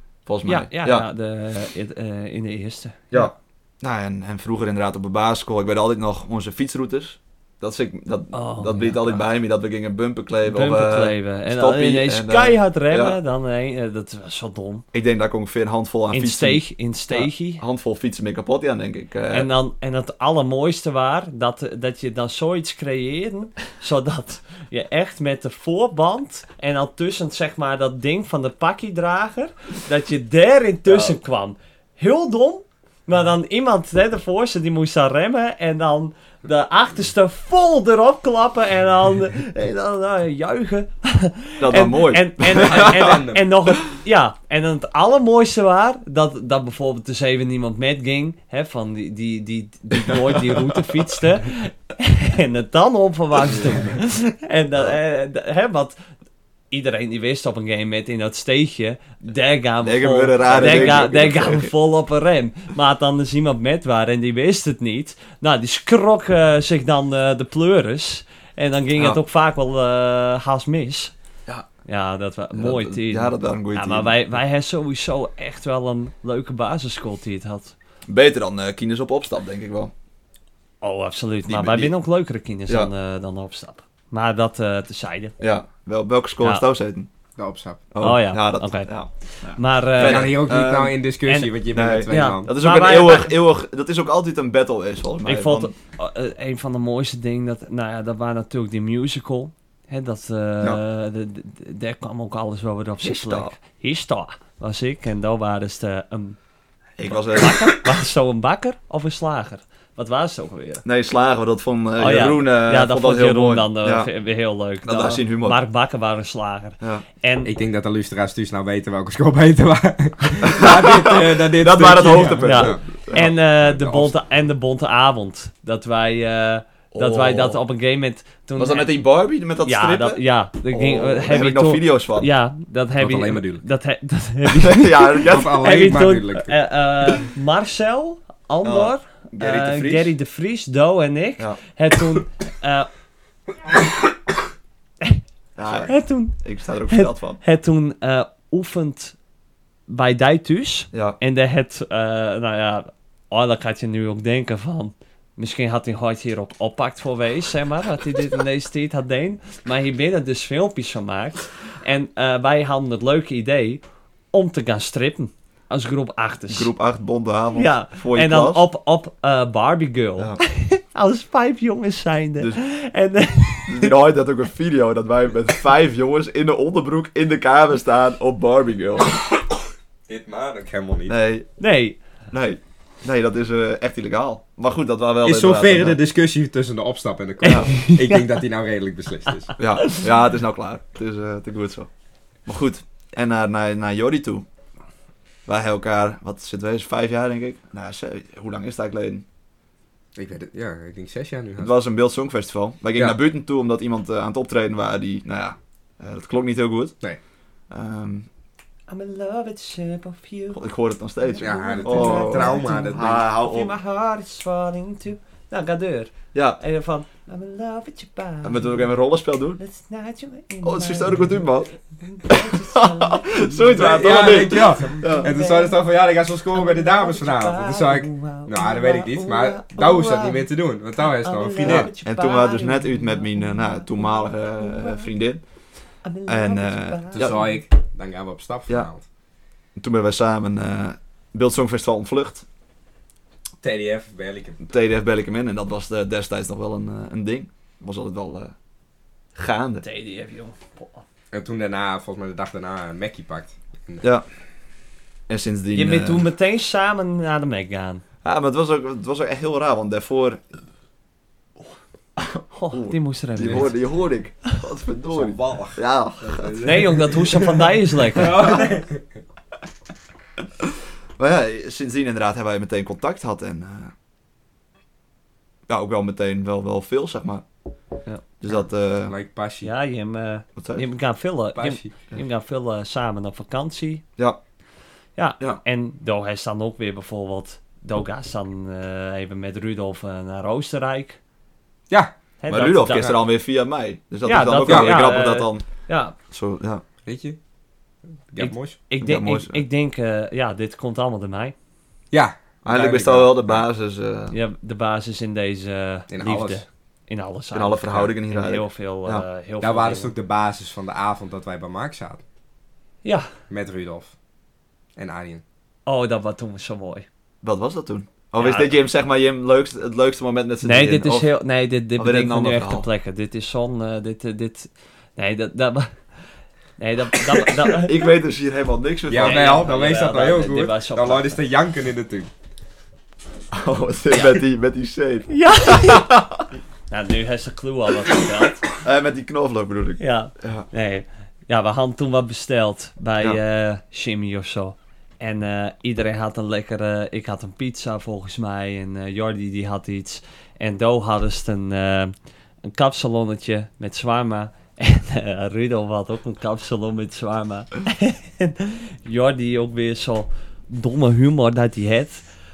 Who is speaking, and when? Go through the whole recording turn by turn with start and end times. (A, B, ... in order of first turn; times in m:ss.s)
0:00.3-0:01.1 A
0:00.5-0:03.3 B
0:03.1-0:13.2 A
0:08.3-0:09.2 B
0:10.4-0:14.8 B
0:14.9-0:19.5 A
0:16.1-0:17.6 B
0:19.3-0:56.0 B
0:30.9-0:31.2 A
0:41.6-0:43.7 A
0:42.6-0:43.5 C
0:50.0-0:51.0 A
0:56.7-1:11.1 B
0:59.8-1:01.7 A
1:11.8-1:17.8 B
1:12.5-1:14.2 A
1:18.1-1:19.9 A
1:20.8-1:25.4 B
1:21.5-1:21.9 A
1:25.4-1:27.1 A
1:27.4-1:27.8 C
1:27.9-1:31.0 A
1:28.0-1:28.9 B
1:29.5-1:30.4 B
1:30.0-1:32.5 C
1:31.3-1:31.5 B
1:31.7-1:35.7 A
1:32.1-1:33.4 B
1:35.3-1:46.4 B
1:43.0-1:43.5 A
1:47.0-1:47.8 A
1:47.0-1:50.8 B
1:50.8-1:54.1 A
1:52.0-1:57.5 B
1:54.8-1:55.6 A
1:57.5-2:02.8 C
2:00.4-2:04.1 A
2:02.4-2:09.0 B
2:06.9-2:07.6 A
2:08.6-2:12.3 A
2:09.6-2:22.9 B
2:13.0-2:13.6 C
2:14.6-2:15.6 A
2:15.2-2:16.5 C
2:18.6-2:20.1 A
2:25.6-2:27.4 A
2:25.8-2:26.4 B
2:26.9-2:29.2 B
2:29.9-2:43.8 B
2:30.9-2:31.2 A
2:44.3-2:46.7 B
2:46.5-2:48.7 A
2:47.6-2:54.0 B
2:53.7-2:59.2 A
3:00.1-3:01.2 C
3:01.1-3:01.5 A
3:01.6-3:02.0 B
3:02.3-3:06.0 A
3:05.2-3:09.5 C
3:07.4-3:08.3 B
3:07.4-3:07.7 A
3:09.6-3:11.9 A
3:09.8-3:10.1 B
3:12.5-3:14.5 A
3:15.5-3:19.2 A
3:20.2-3:21.8 C
3:21.6-3:27.0 A
3:27.7-3:28.3 A
3:28.9-3:30.6 B
3:30.5-3:33.7 A
3:31.2-3:38.8 B
3:31.4-3:33.2 C
3:36.3-3:36.6 A
3:38.4-3:39.6 A
3:39.6-3:41.4 B
3:40.6-3:41.7 A
3:42.0-3:45.8 B
3:42.3-3:45.3 A
3:43.7-3:51.9 C
3:46.5-3:50.4 B
3:51.2-3:55.1 B
3:51.6-3:55.4 A
3:56.0-3:57.6 B
3:56.3-3:57.4 A
3:57.1-3:59.0 C
3:59.8-4:02.4 A
4:03.6-4:04.6 C
4:04.6-4:08.5 A
4:09.4-4:09.8 A
4:09.8-4:11.0 B
4:11.3-4:14.0 C
4:15.3-4:16.3 A
4:15.7-4:18.0 B
4:18.2-4:20.4 A
4:22.2-4:26.5 A
4:22.5-4:23.8 B
4:25.1-4:29.0 C
4:26.6-4:28.6 B
4:30.6-4:33.9 A
4:35.7-4:37.4 A
4:38.4-4:39.2 A
4:39.1-4:39.7 C
4:39.6-4:44.0 B
4:40.6-4:40.8 A
4:41.6-4:41.9 C
4:45.2-4:51.2 B
4:52.4-4:53.2 B
4:52.5-4:55.6 A
4:54.2-4:56.2 B
4:54.7-4:55.0 C
4:56.3-4:56.8 A
4:57.1-4:57.4 C
4:58.3-4:58.8 C
4:58.4-5:01.6 B
4:59.0-4:59.6 A
5:02.1-5:03.6 C
5:02.6-5:04.4 A
5:04.3-5:10.1 B
5:06.1-5:06.6 C
5:07.5-5:09.2 A
5:09.6-5:12.2 C
5:13.5-5:14.1 C
5:15.0-5:15.4 C
5:15.9-5:17.1 B
5:17.4-5:21.3 A
5:18.4-5:18.7 B
5:20.6-5:26.0 B
5:22.0-5:22.9 A
5:26.8-5:28.0 B
5:27.8-5:29.7 A
5:29.1-5:32.3 C
5:29.2-5:31.4 B
5:33.5-5:36.4 A
5:35.3-5:36.1 B
5:36.9-5:38.6 B
5:38.8-5:40.7 A
5:40.0-6:02.2 B